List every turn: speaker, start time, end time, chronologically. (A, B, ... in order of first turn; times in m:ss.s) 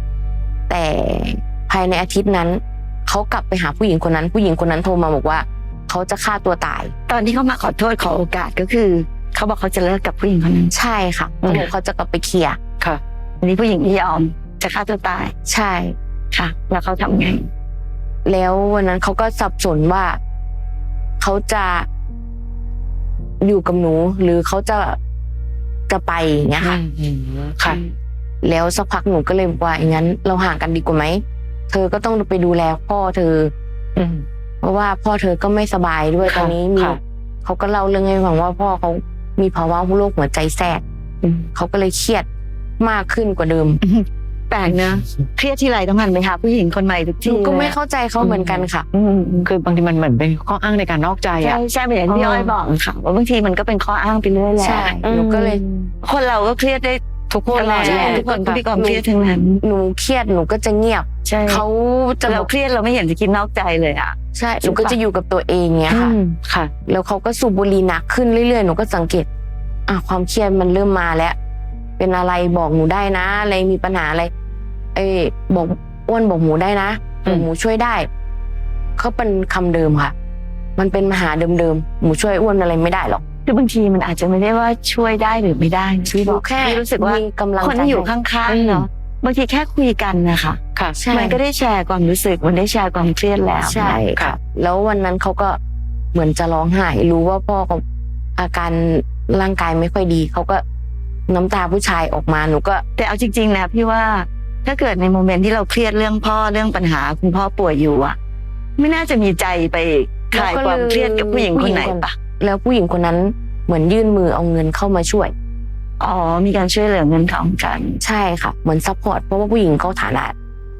0:00.7-0:06.9 A
0:07.1-0:10.7 B
0:10.7-0:12.6 A
0:13.4-0:15.3 B
0:15.5-0:16.0 A
0:16.3-0:17.5 B
0:18.2-0:20.2 A
0:21.2-0:21.9 A
0:23.4-0:25.0 A
0:25.9-0:26.8 A
0:26.6-0:27.8 C
0:28.4-0:33.5 A
0:34.0-0:34.2 C
0:34.6-0:40.8 A
0:36.2-0:37.0 C
0:41.2-0:41.5 C
0:41.5-0:42.3 A
0:42.8-0:43.8 A
0:43.8-0:47.8 B
0:47.2-0:48.9 A
0:48.2-0:48.7 C
0:48.9-0:49.5 B
0:49.4-0:52.6 C
0:51.4-0:54.9 B
0:54.6-0:55.6 A
0:55.0-0:55.9 C
0:56.0-0:57.0 B
0:57.3-0:58.6 C
0:57.5-0:59.6 B
0:57.5-0:59.0 A
0:59.6-1:02.5 A
1:01.2-1:01.6 B
1:02.2-1:05.0 B
1:04.3-1:06.1 A
1:05.9-1:06.7 C
1:06.8-1:09.3 A
1:09.9-1:11.4 A
1:12.0-1:14.3 A
1:14.9-1:18.1 A
1:19.0-1:20.1 A
1:20.8-1:23.2 A
1:23.4-1:34.0 B
1:26.0-1:28.1 A
1:28.5-1:28.9 C
1:31.0-1:31.4 A
1:33.6-1:35.6 A
1:36.1-1:37.8 A
1:38.4-1:40.6 A
1:41.3-1:42.8 A
1:43.0-1:48.2 B
1:48.8-1:52.2 B
1:50.3-1:55.3 A
1:56.0-1:58.0 B
1:58.0-2:00.3 A